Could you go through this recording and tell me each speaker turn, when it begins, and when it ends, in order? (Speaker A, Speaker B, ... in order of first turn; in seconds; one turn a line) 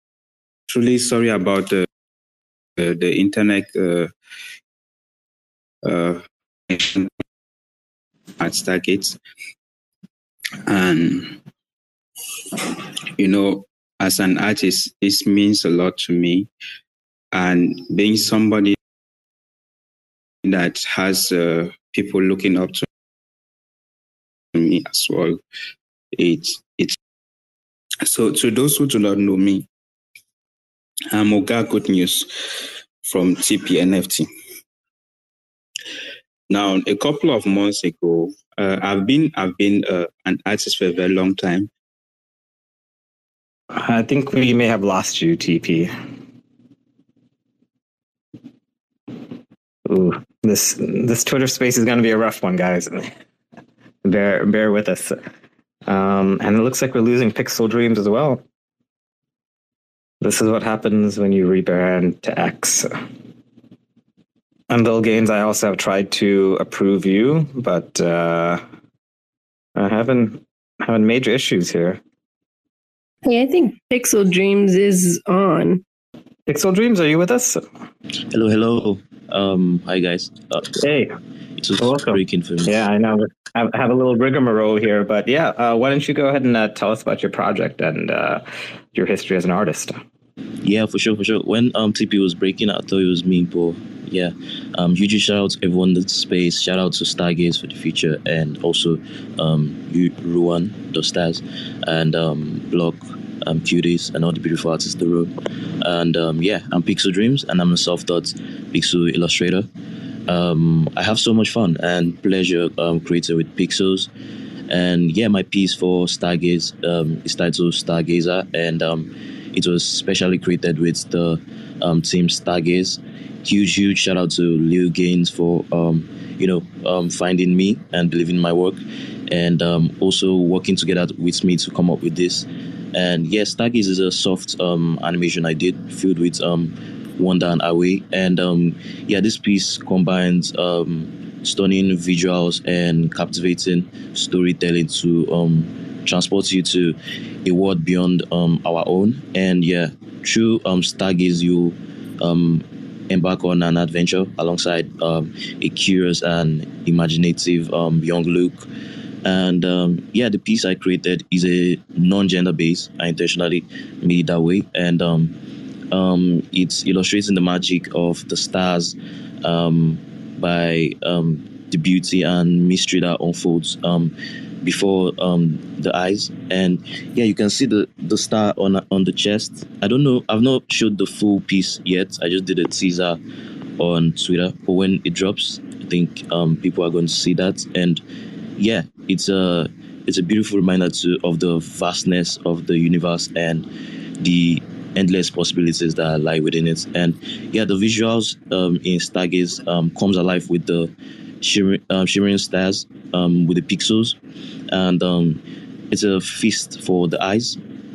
Speaker A: 0.7-1.9
Speaker A: 2.8-4.1
Speaker A: 5.8-7.1
Speaker A: 8.4-9.2
Speaker A: 10.7-11.4
Speaker A: 12.6-16.5
Speaker A: 17.3-18.8
Speaker A: 20.4-22.9
Speaker A: 24.5-25.4
Speaker A: 26.1-27.0
Speaker A: 28.0-29.7
Speaker A: 31.1-34.3
Speaker A: 36.5-41.7
Speaker B: 43.7-45.9
Speaker B: 49.9-53.1
Speaker B: 54.0-55.2
Speaker B: 55.9-58.4
Speaker B: 60.2-62.9
Speaker B: 64.7-68.6
Speaker B: 69.8-72.0
Speaker C: 73.2-75.8
Speaker B: 76.5-77.6
Speaker D: 78.3-80.7
Speaker B: 80.8-81.1
Speaker D: 81.6-82.8
Speaker B: 81.8-90.0
Speaker D: 90.6-109.7
Speaker D: 110.3-114.1
Speaker D: 114.7-158.7
Speaker D: 159.2-165.3
Speaker D: 165.9-183.2
Speaker D: 183.8-188.0
Speaker D: 188.6-193.7
Speaker D: 194.2-204.2
Speaker D: 204.7-207.6